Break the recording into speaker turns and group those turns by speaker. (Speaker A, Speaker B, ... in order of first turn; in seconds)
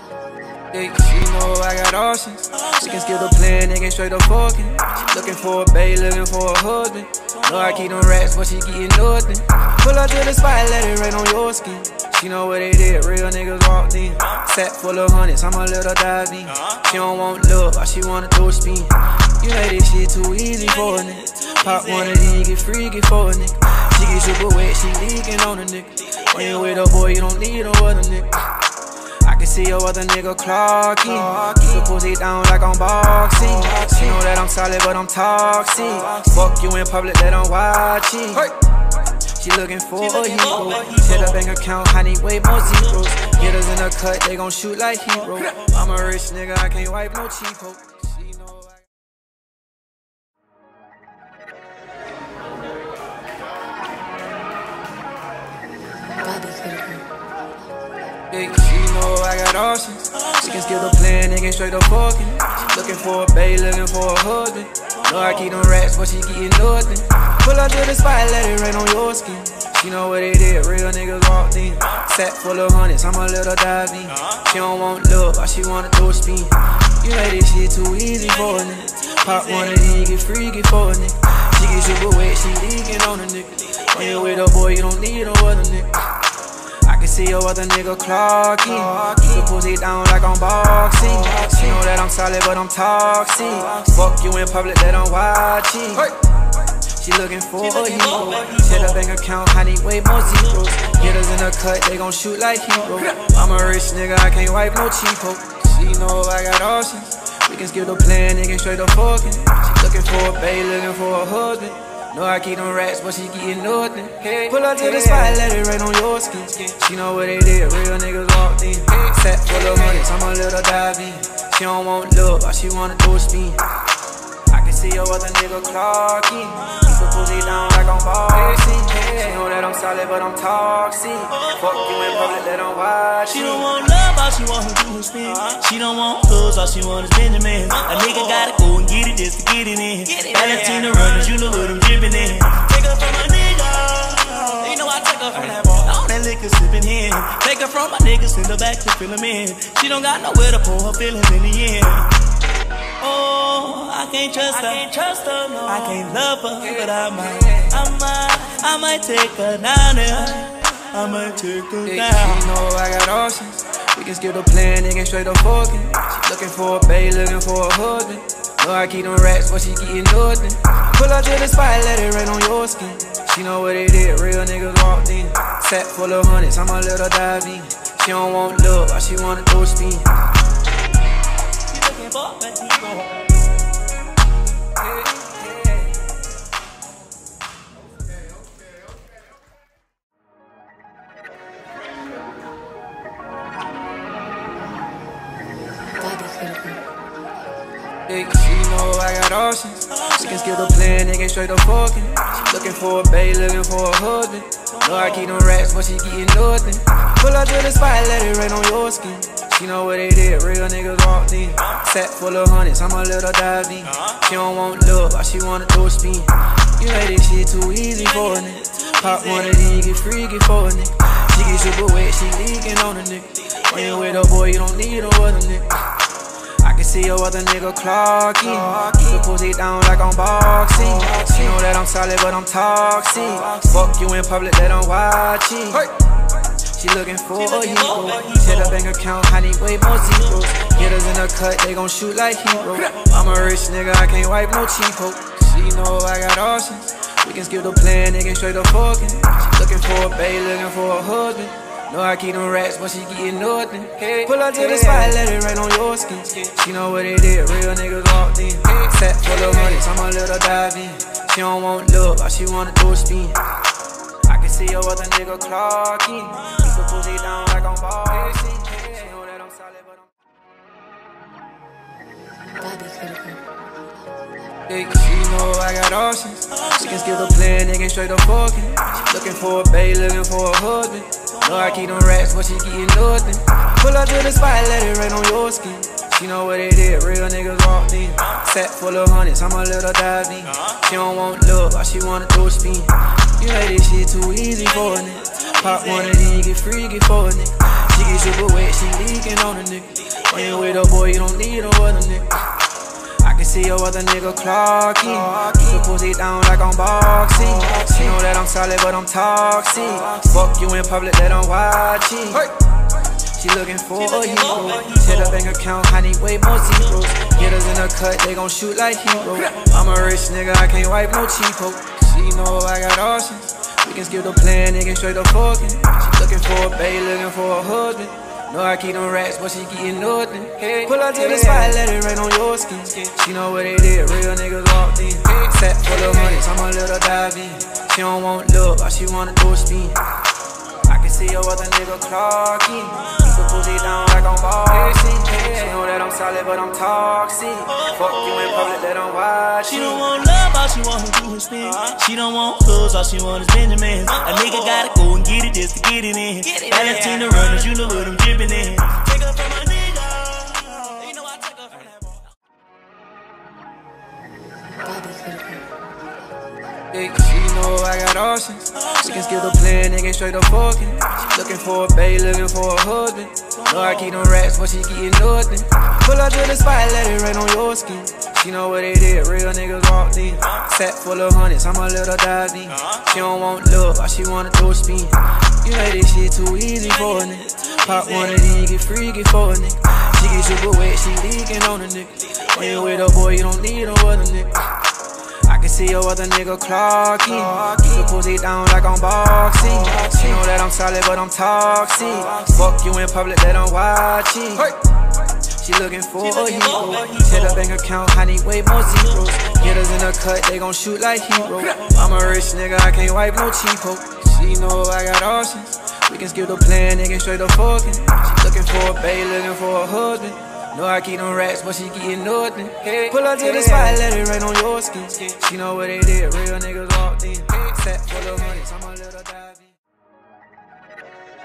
Speaker A: 0.7-28.5, 29.2-38.5, 39.3-48.7, 58.3-86.1, 86.8-96.1, 96.9-123.7, 124.5-133.7, 161.9-180.2, 198.1-226.0, 226.6-235.9, 236.7-263.4, 264.2-270.1, 274.7-302.5, 303.2-312.5, 313.2-340.0, 340.8-350.0, 366.9-394.7, 395.4-404.8, 405.5-429.7
Speaker B: 40.2-41.3, 97.8-99.0, 131.3-132.4, 133.3-152.2, 153.0-162.5, 181.7-183.3, 237.6-238.6, 314.6-314.9, 347.8-348.4, 349.7-362.3, 406.4-407.4
Speaker C: 56.2-57.1, 195.9-196.8, 272.5-273.4, 364.8-365.6